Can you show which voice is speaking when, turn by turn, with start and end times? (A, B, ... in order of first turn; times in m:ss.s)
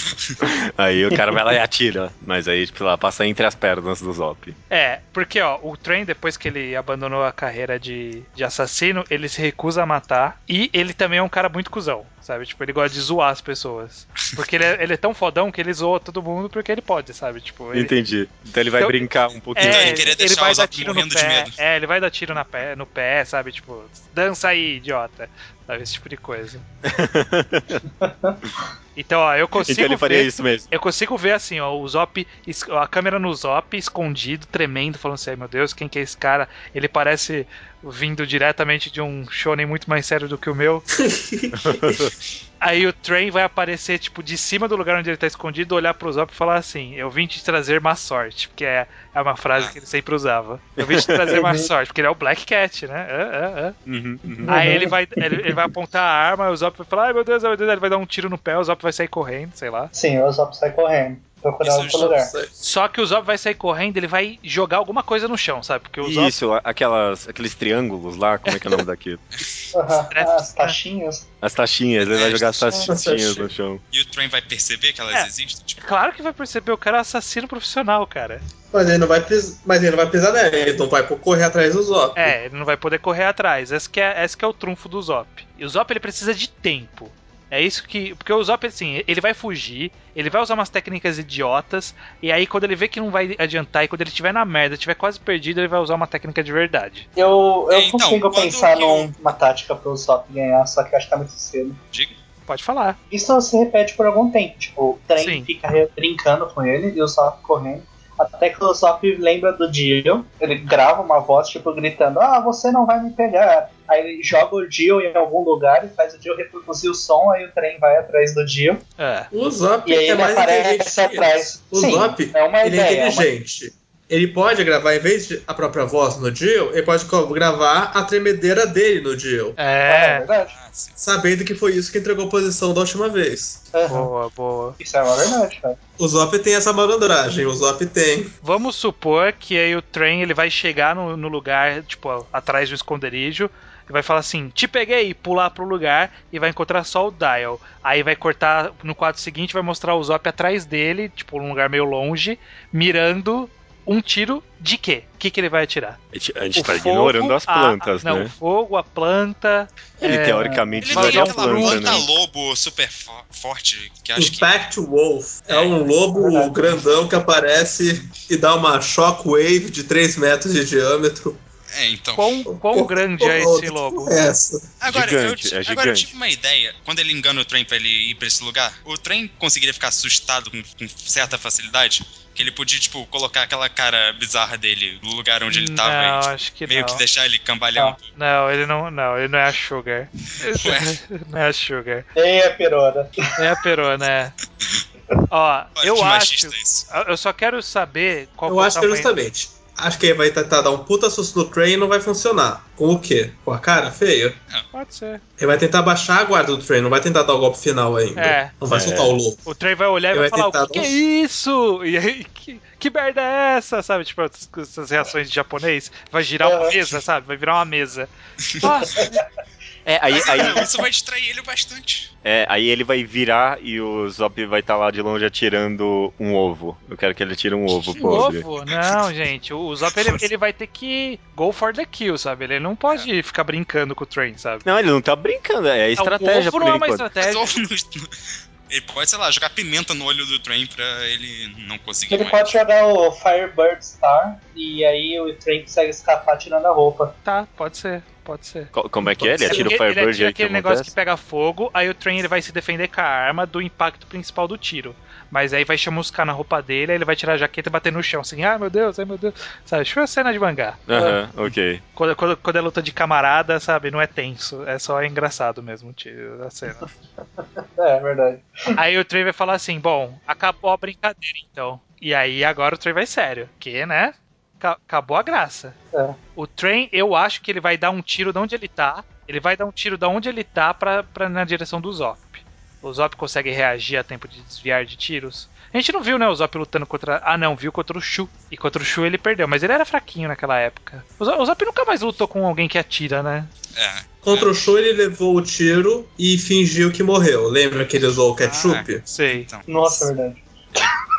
0:00.4-0:04.6 A
0:04.7-0:17.9 B
0:17.7-0:20.2 A
0:18.8-0:26.6 B
0:19.6-0:21.5 C
0:26.8-0:27.8 A
0:28.0-0:28.4 D
0:29.0-0:40.8 B
0:29.6-0:30.7 A
0:41.0-0:42.1 E
0:41.6-0:42.1 A
0:42.6-0:53.8 B
0:50.8-0:51.3 A
0:51.3-0:51.7 D
0:53.9-0:54.9 A
0:54.4-0:54.9 D
0:54.4-0:59.9 B
0:59.9-1:02.3 D
1:01.6-1:02.2 C
1:02.0-1:02.5 E
1:02.6-1:06.4 B
1:06.0-1:09.2 A
1:08.5-1:08.8 B
1:09.4-1:09.7 C
1:09.7-1:11.2 D
1:10.1-1:10.8 B
1:11.4-1:13.8 A
1:12.0-1:12.9 C
1:12.9-1:13.5 E
1:13.9-1:15.8 C
1:15.8-1:18.4 B
1:18.7-1:22.4 E
1:22.2-1:37.1 B
1:37.2-1:41.8 D
1:37.7-1:39.1 C
1:42.5-1:43.0 B
1:43.1-1:58.8 D
1:45.2-1:45.5 B
1:59.0-1:59.3 B
1:59.3-2:09.6 E
1:59.8-2:03.3 D
2:09.6-2:10.2 B
2:09.9-2:10.6 D
2:10.5-2:11.0 C
2:11.0-2:13.6 E
2:13.7-2:14.1 D
2:13.9-2:14.8 B
2:14.8-2:15.8 D
2:16.0-2:18.3 E
2:18.4-2:36.0 B
2:36.1-2:38.3 A
2:36.6-2:42.0 B
2:40.0-2:42.1 A
2:40.4-2:40.9 D
2:40.8-2:44.5 C
2:44.2-2:51.4 E
2:45.5-2:45.8 C
2:46.1-2:46.7 D
2:51.7-2:52.3 C
2:52.2-2:54.1 B
2:52.5-2:54.8 E
2:54.8-3:08.1 C
2:54.9-2:56.1 A
3:05.5-3:07.0 B
3:08.2-3:12.1 B
3:10.5-3:11.0 C
3:12.2-3:13.2 D
3:13.4-3:14.4 B
3:15.3-3:19.1 B
3:15.8-3:16.9 C
3:18.5-3:24.4 E
3:24.7-3:25.2 B
3:25.4-3:29.4 E
3:28.2-3:28.5 B
3:28.7-3:29.2 A
3:29.5-3:38.1 B
3:30.1-3:31.0 E
3:36.4-3:36.8 D
3:38.6-3:39.2 B
3:38.6-3:39.2 D
3:39.9-3:40.8 A
3:40.1-3:42.1 C
3:42.2-3:48.5 A
3:47.9-3:54.6 B
3:54.6-3:57.1 A
3:56.0-3:57.5 B
3:57.2-3:58.1 C
3:58.7-4:02.6 C
4:02.1-4:07.1 D
4:07.2-4:08.7 B
4:08.7-4:10.9 A
4:09.0-4:09.7 E
4:09.5-4:21.1 B
4:20.9-4:21.8 A
4:22.0-4:26.9 B
4:27.4-4:28.8 D
4:28.7-4:35.8 B
4:35.9-4:36.2 D
4:36.4-4:53.5 B
4:53.8-4:54.7 C
4:54.2-4:59.0 E
4:58.4-5:00.1 C
4:59.1-4:59.5 B
4:59.7-5:00.9 D